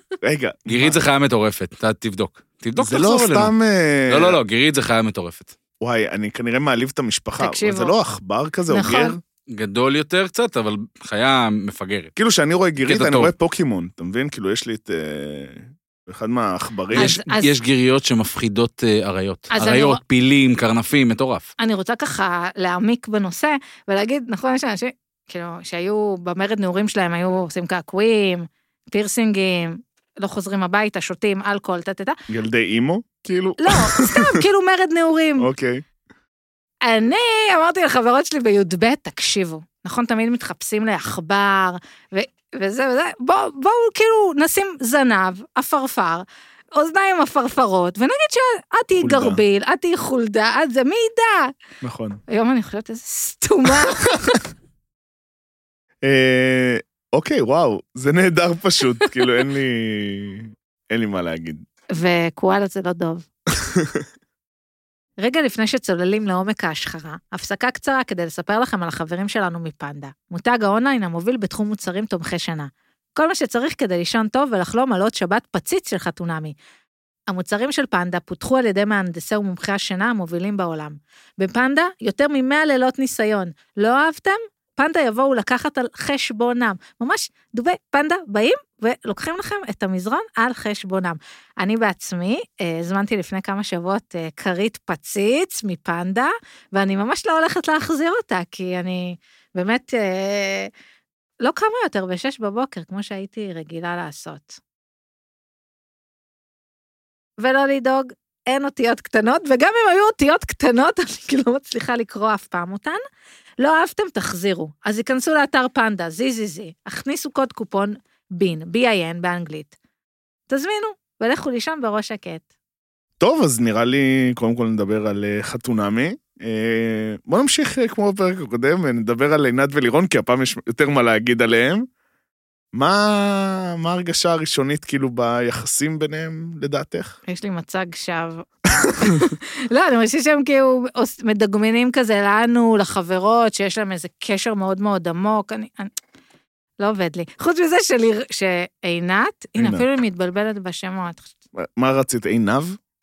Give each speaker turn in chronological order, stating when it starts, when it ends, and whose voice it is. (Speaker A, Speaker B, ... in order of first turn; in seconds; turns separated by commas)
Speaker A: 0.2-1.0, Speaker B: 0.7-3.5, Speaker A: 2.8-4.4, Speaker B: 4.1-5.5, Speaker A: 5.8-9.2, Speaker C: 7.4-7.9, Speaker C: 8.7-9.2, Speaker B: 9.5-12.1, Speaker A: 12.2-17.1, Speaker B: 12.8-13.3, Speaker C: 16.9-17.5, Speaker B: 16.9-21.5, Speaker C: 19.5-20.0, Speaker C: 21.6-32.1, Speaker A: 32.3-34.4, Speaker C: 33.6-35.5, Speaker A: 35.4-35.8, Speaker C: 36.8-51.5, Speaker A: 49.0-49.4, Speaker A: 51.8-52.2, Speaker C: 52.3-54.1, Speaker A: 56.0-61.6, Speaker C: 61.9-63.2, Speaker A: 63.6-64.0, Speaker C: 65.2-76.5, Speaker C: 77.3-100.7, Speaker C: 101.4-104.6, Speaker C: 107.4-113.0, Speaker C: 113.6-119.7, Speaker C: 120.5-122.4, Speaker A: 123.2-131.8, Speaker A: 132.7-137.2, Speaker C: 137.3-145.9, Speaker C: 146.8-151.3, Speaker A: 149.6-149.8, Speaker A: 151.5-152.8